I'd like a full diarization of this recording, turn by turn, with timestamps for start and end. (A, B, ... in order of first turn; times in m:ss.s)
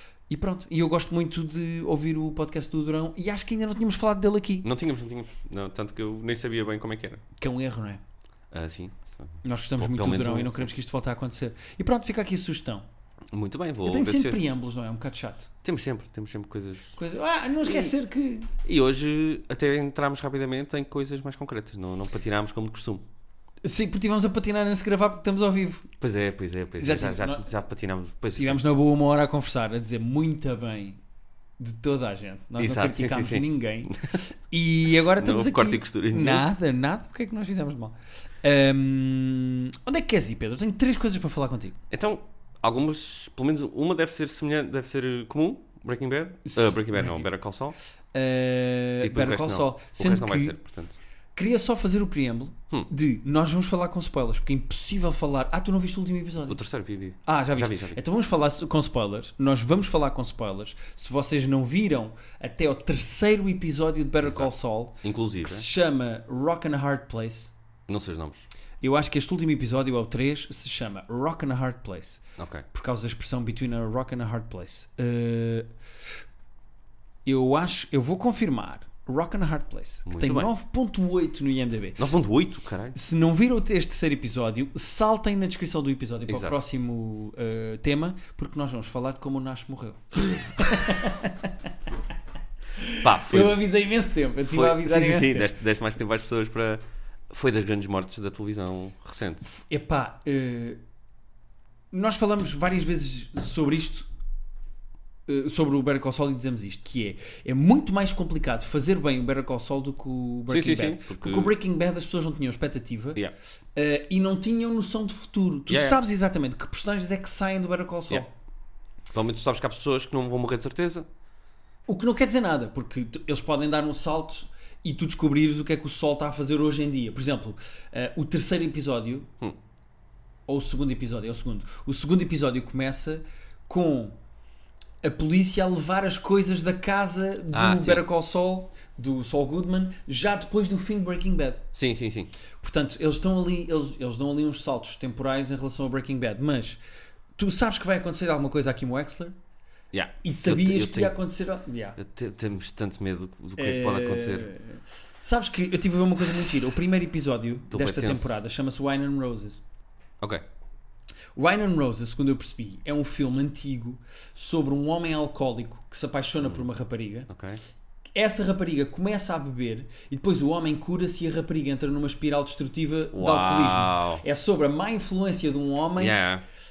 0:00.3-0:04.7 A
0:04.6-0:07.2 B
0:07.4-0:08.0 A
0:08.5-0:10.7 B
0:09.4-0:12.8 A
0:13.3-0:14.4 B
0:13.8-0:15.5 A
0:15.6-0:17.0 B
0:17.0-0:18.5 A
0:17.6-0:17.9 B
0:18.6-0:23.0 B
0:23.6-0:25.9 A
0:26.0-0:28.6 B
0:26.8-0:27.5 A
0:28.4-0:31.0 A
0:31.6-0:33.9 A
0:32.6-0:34.2 B
0:34.5-0:41.8 A
0:35.0-0:36.4 B
0:41.9-0:47.7 B
0:46.4-0:47.2 A
0:48.1-0:50.6 A
0:49.0-0:51.0 B
0:51.3-0:56.6 A
0:56.5-0:58.0 B
0:57.2-1:07.5 A
1:04.2-1:04.5 B
1:05.0-1:05.7 B
1:07.9-1:08.4 B
1:08.8-1:12.2 A
1:12.4-1:12.6 B
1:12.7-1:15.7 A
1:17.2-1:22.1 A
1:20.0-1:20.5 B
1:22.0-1:23.0 B
1:22.9-1:31.7 A
1:26.3-1:26.5 B
1:32.8-1:35.5 A
1:33.0-1:33.6 B
1:34.5-1:39.4 B
1:39.4-1:40.8 A
1:41.9-1:44.1 A
1:45.3-1:53.2 A
1:50.5-1:51.5 B
1:53.7-1:58.3 A
1:55.7-1:56.0 B
1:59.1-2:01.1 B
2:01.9-2:09.3 A
2:10.5-2:14.2 A
2:15.0-2:21.6 A
2:17.5-2:18.0 B
2:21.7-2:22.3 B
2:22.6-2:26.8 A
2:27.4-2:29.3 A
2:29.9-2:31.1 B
2:30.2-2:32.0 A
2:32.0-2:34.5 B
2:33.6-2:39.6 A
2:37.7-2:38.4 B
2:41.4-2:47.3 A
2:47.3-2:47.6 B
2:48.1-2:56.2 A
2:53.1-2:54.2 B
2:56.0-2:56.4 B